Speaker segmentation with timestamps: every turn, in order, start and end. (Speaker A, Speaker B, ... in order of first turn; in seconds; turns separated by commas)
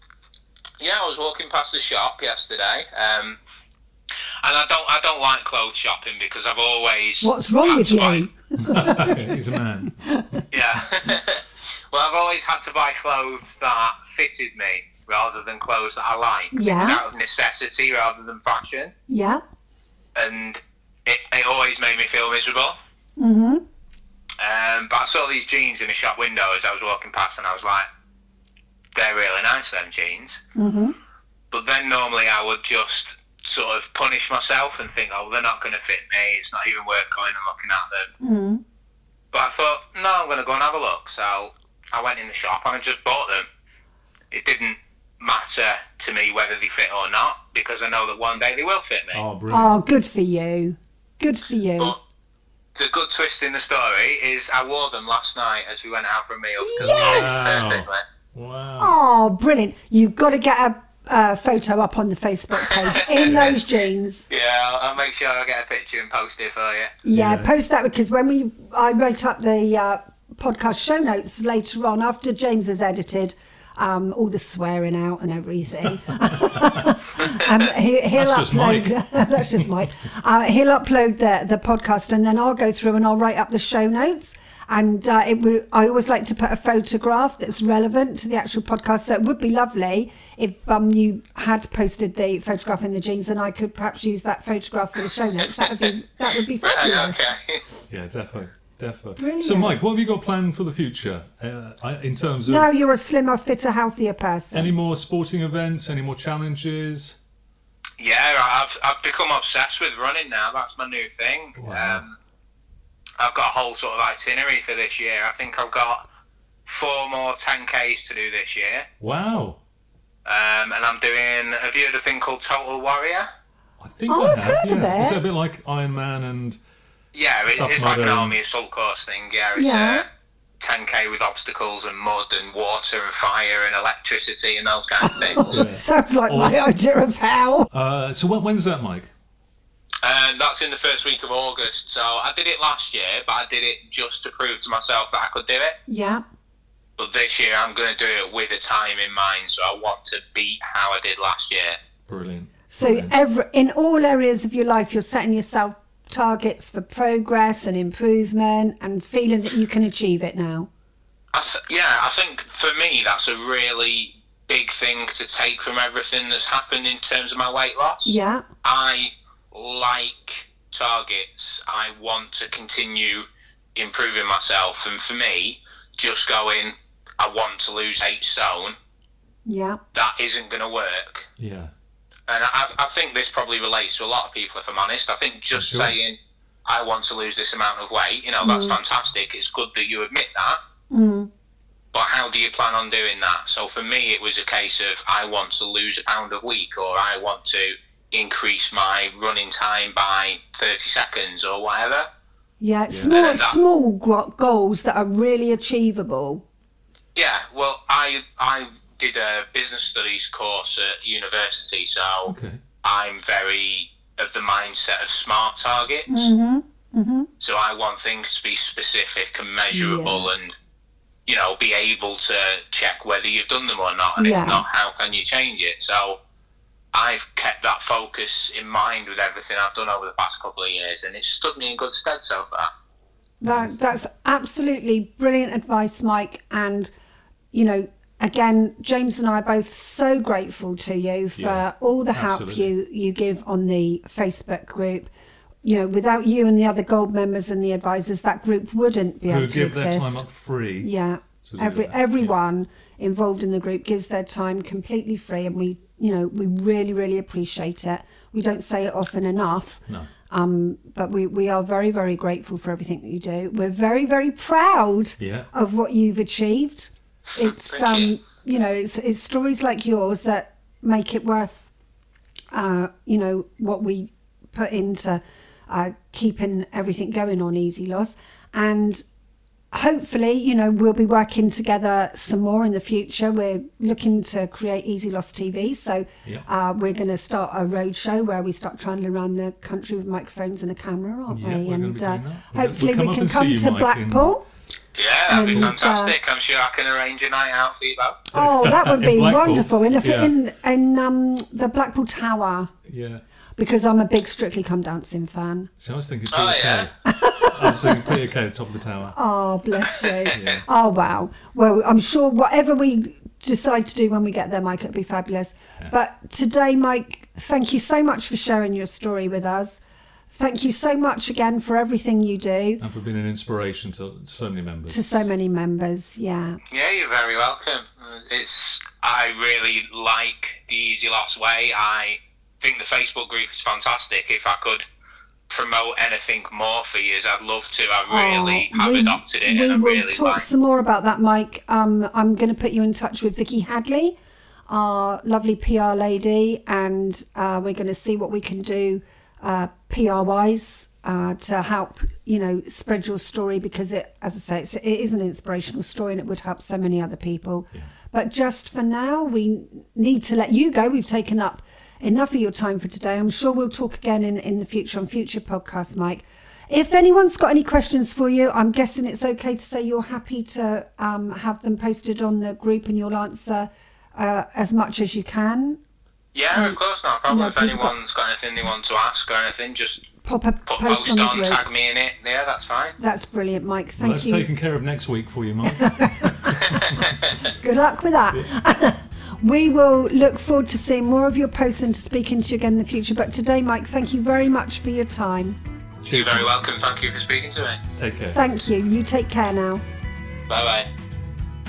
Speaker A: 0.8-3.4, Speaker A: 4.4-8.2, Speaker B: 7.2-10.4, Speaker C: 8.6-9.9, Speaker A: 10.5-18.9, Speaker B: 16.5-17.0, Speaker B: 19.1-19.4, Speaker A: 20.1-22.8, Speaker B: 23.2-23.6, Speaker A: 24.4-27.9, Speaker A: 28.9-30.4, Speaker B: 30.6-30.9, Speaker A: 31.5-38.1, Speaker B: 38.2-38.6, Speaker A: 39.3-43.5, Speaker A: 44.3-49.2, Speaker C: 49.1-49.8, Speaker B: 49.5-51.9, Speaker A: 52.8-58.0, Speaker B: 56.6-57.8, Speaker C: 56.8-59.0, Speaker B: 58.8-64.3, Speaker A: 62.9-63.5, Speaker C: 63.2-63.6, Speaker A: 64.3-66.9, Speaker B: 67.0-97.2, Speaker C: 67.1-67.5, Speaker C: 76.4-76.9, Speaker C: 78.2-79.7, Speaker A: 95.4-95.9, Speaker A: 96.6-97.6, Speaker C: 97.9-102.7, Speaker B: 99.2-99.8, Speaker B: 102.5-104.7, Speaker C: 104.5-107.2, Speaker A: 108.0-112.1, Speaker C: 111.5-112.0, Speaker A: 113.2-116.0, Speaker A: 116.7-118.9, Speaker C: 119.0-119.6, Speaker A: 120.2-123.3, Speaker C: 123.8-126.6, Speaker B: 124.1-125.2, Speaker A: 127.1-130.0, Speaker C: 127.5-128.3, Speaker B: 129.6-130.0, Speaker A: 130.6-135.5, Speaker B: 135.0-137.7, Speaker C: 135.5-136.6, Speaker C: 137.7-139.1, Speaker A: 140.0-145.8, Speaker B: 145.9-146.2, Speaker A: 147.0-151.8, Speaker C: 152.1-153.1, Speaker B: 152.7-160.7, Speaker A: 161.3-178.7, Speaker B: 168.0-168.4, Speaker B: 179.4-179.8, Speaker A: 179.9-181.3, Speaker C: 181.4-181.7, Speaker A: 182.3-190.6, Speaker C: 185.5-185.9, Speaker B: 188.4-188.8, Speaker B: 190.9-191.3, Speaker A: 191.9-202.1, Speaker B: 202.6-206.4, Speaker C: 202.9-203.2, Speaker A: 203.1-203.6, Speaker A: 207.1-216.3, Speaker C: 212.2-212.6, Speaker B: 216.1-217.3, Speaker A: 217.4-220.6, Speaker B: 219.7-220.3, Speaker A: 221.3-226.2, Speaker B: 224.2-224.6, Speaker A: 226.9-232.7, Speaker B: 233.4-236.9, Speaker C: 233.5-233.7, Speaker B: 237.5-245.1, Speaker C: 241.4-242.7, Speaker B: 245.6-250.2, Speaker C: 249.3-250.9, Speaker B: 250.8-271.7, Speaker C: 251.4-252.3, Speaker C: 265.2-265.5, Speaker A: 267.7-268.1, Speaker B: 272.5-279.0, Speaker B: 279.7-294.4, Speaker C: 291.3-294.3, Speaker A: 294.9-298.2, Speaker B: 295.3-296.1, Speaker C: 298.3-300.3, Speaker B: 298.3-302.7, Speaker C: 302.8-303.2, Speaker B: 303.6-305.7, Speaker C: 305.8-309.2, Speaker A: 306.3-306.9, Speaker B: 307.0-308.1, Speaker B: 309.1-319.8, Speaker C: 310.3-310.6, Speaker B: 320.3-322.8, Speaker C: 322.8-325.0, Speaker B: 324.9-326.6, Speaker A: 326.7-334.8, Speaker A: 335.5-340.4, Speaker B: 338.1-344.1, Speaker B: 344.7-375.8, Speaker A: 376.3-380.1, Speaker B: 377.3-377.9, Speaker B: 380.2-381.6, Speaker A: 380.7-383.0, Speaker B: 383.0-384.5, Speaker C: 384.0-387.0, Speaker B: 385.7-386.9, Speaker A: 386.6-387.3, Speaker B: 387.6-395.6, Speaker C: 396.0-396.5, Speaker A: 396.1-397.8, Speaker C: 397.9-398.4, Speaker B: 398.3-399.8, Speaker A: 400.5-400.9